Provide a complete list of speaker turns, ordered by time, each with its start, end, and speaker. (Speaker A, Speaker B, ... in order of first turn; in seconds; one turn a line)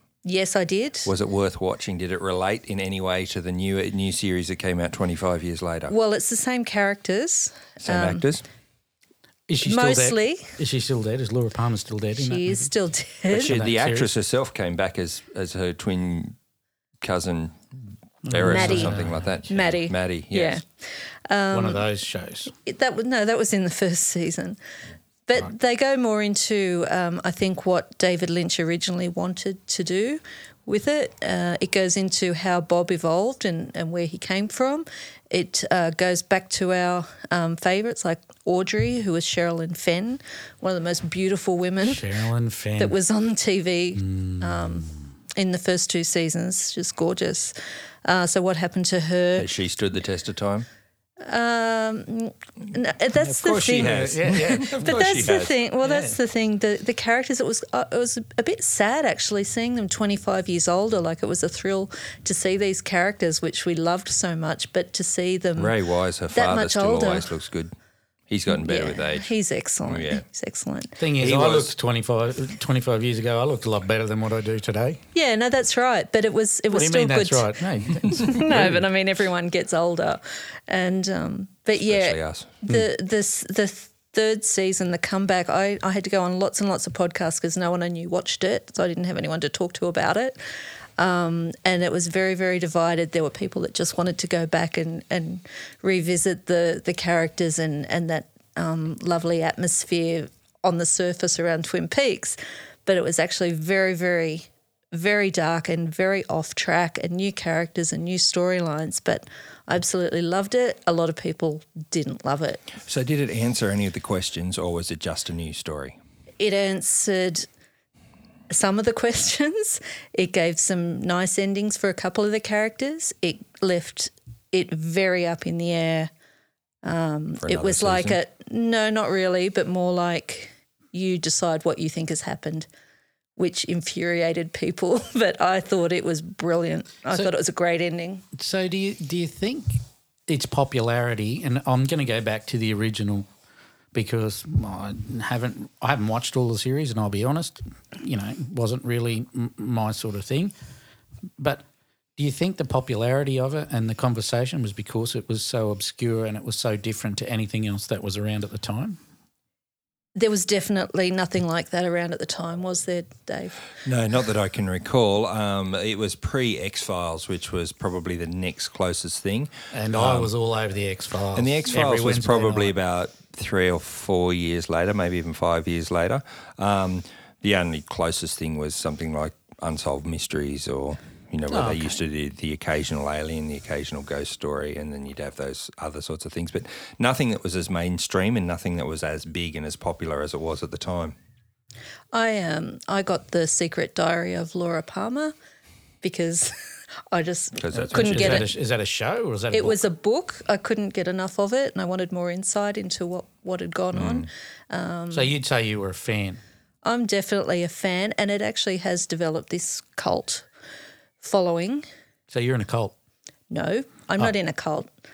Speaker A: 0.2-1.1
Speaker B: 1.0-5.9
Speaker A: 5.9-8.2
Speaker B: 7.8-8.4
Speaker C: 9.5-12.7
Speaker A: 9.6-10.5
Speaker A: 12.2-13.6
Speaker C: 13.3-14.1
Speaker B: 13.3-16.3
Speaker B: 17.0-17.6
Speaker C: 18.2-19.2
Speaker B: 18.3-20.6
Speaker A: 18.4-20.6
Speaker A: 21.3-21.9
Speaker C: 21.5-22.5
Speaker A: 22.6-24.6
Speaker A: 25.3-42.0
Speaker C: 41.8-43.0
Speaker A: 42.8-49.5
Speaker C: 44.0-44.9
Speaker B: 49.4-50.6
Speaker A: 51.2-65.7
Speaker C: 53.2-56.2
Speaker B: 53.4-55.5
Speaker B: 65.6-67.7
Speaker A: 66.3-67.3
Speaker B: 68.3-69.3
Speaker A: 68.5-71.0
Speaker B: 69.8-70.2
Speaker C: 71.0-75.0
Speaker B: 71.2-71.7
Speaker A: 75.1-90.4
Speaker C: 76.7-78.8
Speaker B: 81.8-82.5
Speaker A: 91.0-112.6
Speaker B: 112.8-116.0
Speaker A: 116.4-117.5
Speaker A: 118.5-126.1
Speaker A: 126.8-132.7
Speaker B: 127.4-128.2
Speaker A: 133.4-138.2
Speaker C: 138.3-139.8
Speaker C: 140.3-143.3
Speaker C: 143.9-150.5
Speaker C: 152.2-159.0
Speaker A: 160.1-163.7
Speaker B: 163.8-170.3
Speaker C: 169.7-172.7
Speaker B: 171.3-191.1
Speaker C: 181.5-182.0
Speaker A: 192.1-195.3
Speaker A: 196.0-196.5
Speaker A: 197.1-198.5
Speaker B: 197.5-198.5
Speaker C: 197.7-199.8
Speaker A: 199.5-205.3
Speaker B: 203.9-204.3
Speaker C: 205.1-206.4
Speaker A: 206.8-210.4
Speaker A: 211.2-211.8
Speaker C: 212.3-212.9
Speaker A: 213.5-214.9